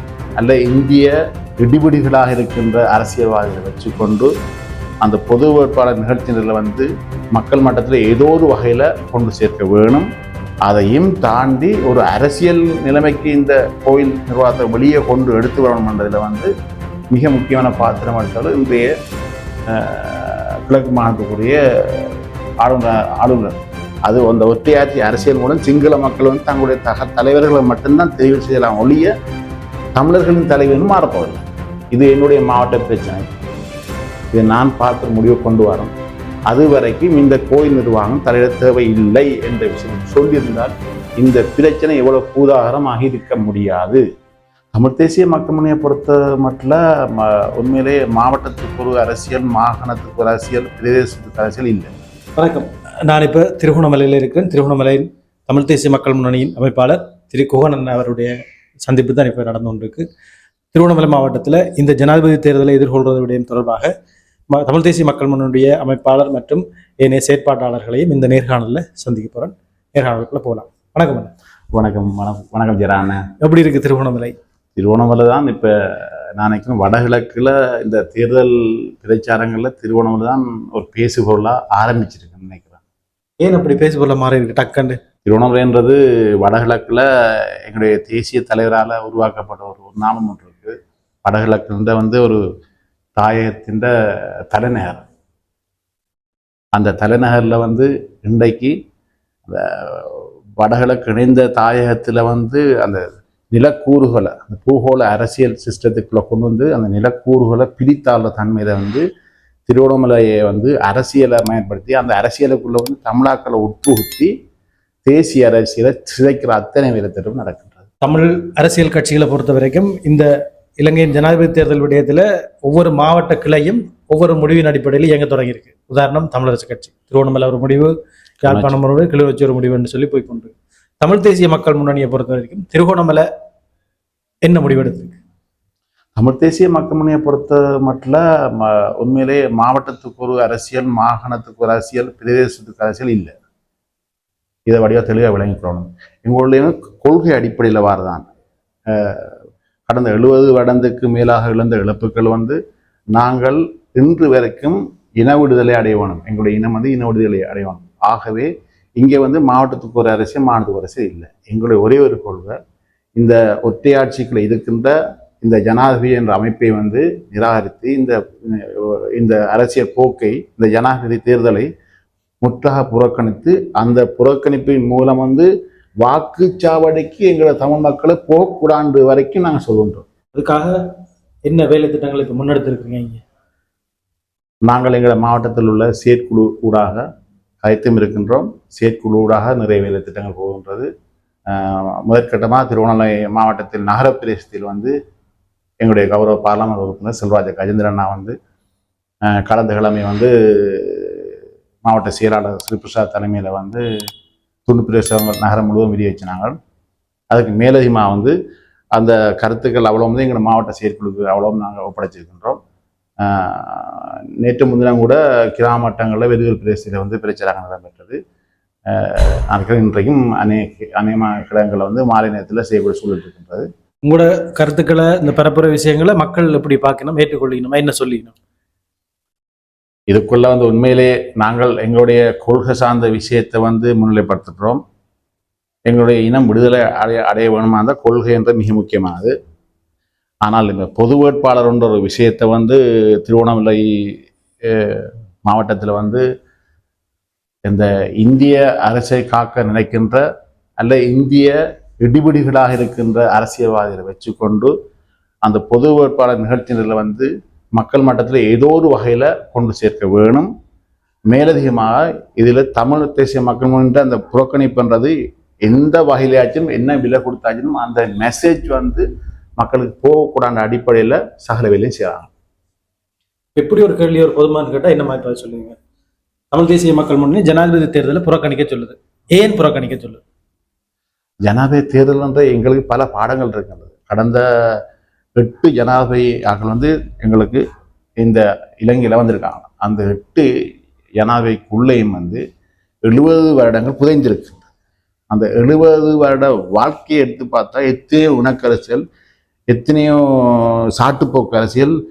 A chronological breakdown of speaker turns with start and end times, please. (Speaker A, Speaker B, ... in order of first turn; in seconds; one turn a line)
Speaker A: 0.4-4.3
Speaker A: 5.0-10.1
Speaker A: 10.7-16.5
Speaker A: 17.1-18.9
Speaker A: 19.7-23.6
Speaker A: 24.1-29.1
Speaker A: 30.0-33.3
Speaker A: 34.3-35.9
Speaker A: 36.5-44.0
Speaker A: 44.7-51.9
Speaker B: 52.4-60.0
Speaker B: 60.7-63.9
Speaker B: 64.5-71.3
Speaker A: 71.7-73.3
Speaker B: 73.4-74.3
Speaker A: 74.8-82.8
Speaker B: 83.4-85.0
Speaker A: 85.2-87.1
Speaker A: 87.7-92.4
Speaker A: 93.2-93.9
Speaker A: 94.5-95.0
Speaker A: 96.7-98.8
Speaker A: 99.5-109.0
Speaker A: 109.7-114.3
Speaker A: 115.0-117.9
Speaker B: 118.0-127.9
Speaker B: 128.4-133.3
Speaker A: 128.4-128.8
Speaker B: 134.5-135.2
Speaker A: 136.2-143.4
Speaker A: 144.7-148.3
Speaker A: 148.9-149.3
Speaker A: 149.9-152.6
Speaker A: 153.2-162.6
Speaker A: 163.2-171.7
Speaker A: 172.4-175.5
Speaker A: 176.0-180.1
Speaker B: 180.3-180.8
Speaker B: 181.4-183.2
Speaker A: 184.7-187.0
Speaker A: 187.6-190.9
Speaker A: 191.5-194.9
Speaker A: 195.8-198.4
Speaker A: 199.3-201.3
Speaker A: 201.8-203.8
Speaker A: 204.7-206.6
Speaker A: 207.3-208.3
Speaker A: 209.0-212.6
Speaker A: 213.2-218.2
Speaker A: 218.9-223.7
Speaker B: 224.0-228.3
Speaker A: 230.1-234.8
Speaker A: 235.9-239.3
Speaker A: 240.4-246.2
Speaker A: 247.7-250.2
Speaker A: 250.8-254.7
Speaker A: 255.4-260.5
Speaker A: 261.3-269.1
Speaker A: 269.6-272.3
Speaker B: 273.6-275.8
Speaker B: 276.5-280.2
Speaker A: 281.5-284.8
Speaker A: 285.4-287.6
Speaker A: 288.2-290.5
Speaker A: 291.2-292.4
Speaker A: 293.1-294.7
Speaker A: 295.3-299.0
Speaker A: 299.7-301.9